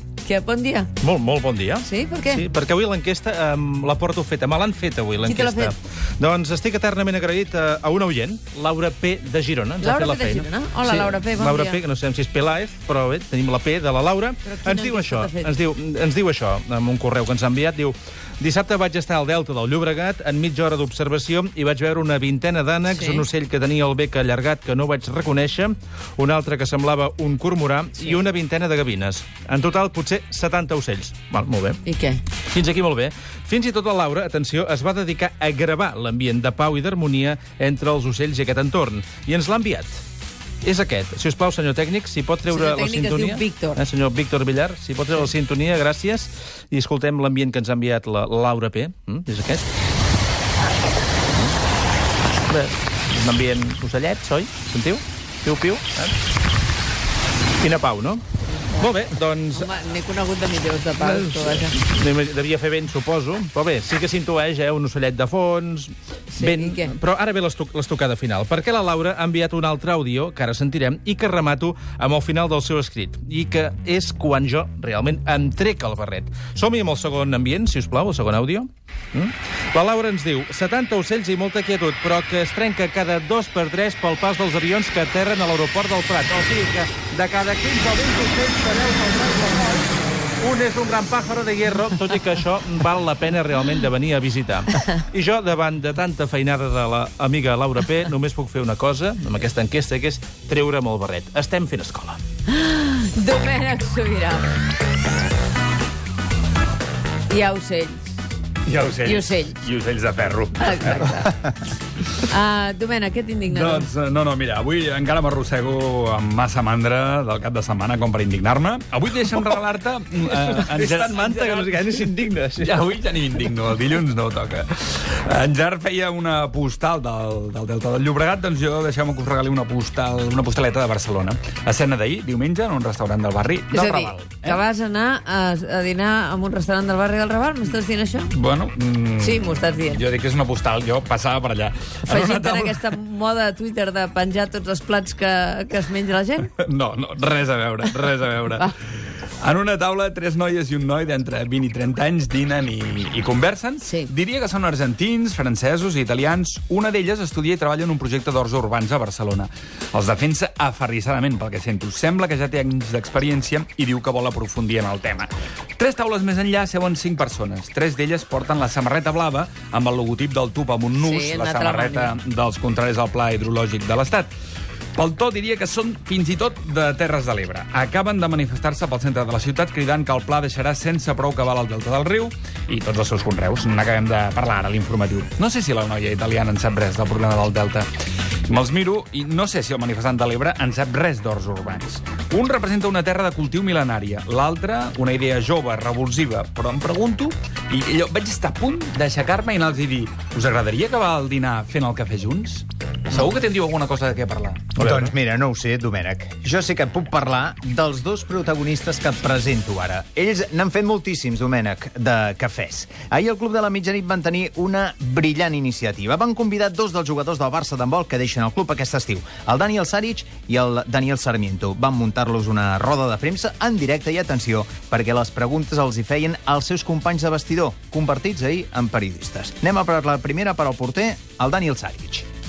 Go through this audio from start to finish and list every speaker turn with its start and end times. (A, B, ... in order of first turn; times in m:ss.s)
0:00.2-0:00.9 A
0:01.0-0:31.8 B
0:01.8-0:02.5 A
0:05.3-0:05.7 A
0:09.8-0:11.8 A
0:14.4-0:15.5 A
0:23.0-0:23.2 A
0:31.9-0:32.2 A
0:32.5-0:40.0 B
0:40.6-0:49.7 B
0:42.5-0:43.8 A
0:52.5-0:56.1 B
0:57.6-0:59.7 B
0:59.6-1:01.7 A
1:01.0-1:29.9 B
1:06.4-1:06.8 A
1:30.4-1:42.2 B
1:42.5-1:44.5 A
1:47.3-1:48.0 A
1:48.7-1:51.1 C
1:49.0-1:49.6 A
1:50.6-1:51.3 A
1:52.3-1:53.9 A
1:53.5-2:01.7 C
2:00.3-2:02.8 B
2:02.6-2:14.6 C
2:13.8-2:18.3 A
2:18.3-2:22.8 C
2:19.2-2:20.0 A
2:22.1-2:26.5 A
2:26.4-2:54.3 C
2:51.0-2:52.1 A
2:55.0-3:07.9 C
3:08.5-3:24.8 C
3:24.8-3:25.1 B
3:24.8-3:52.3 D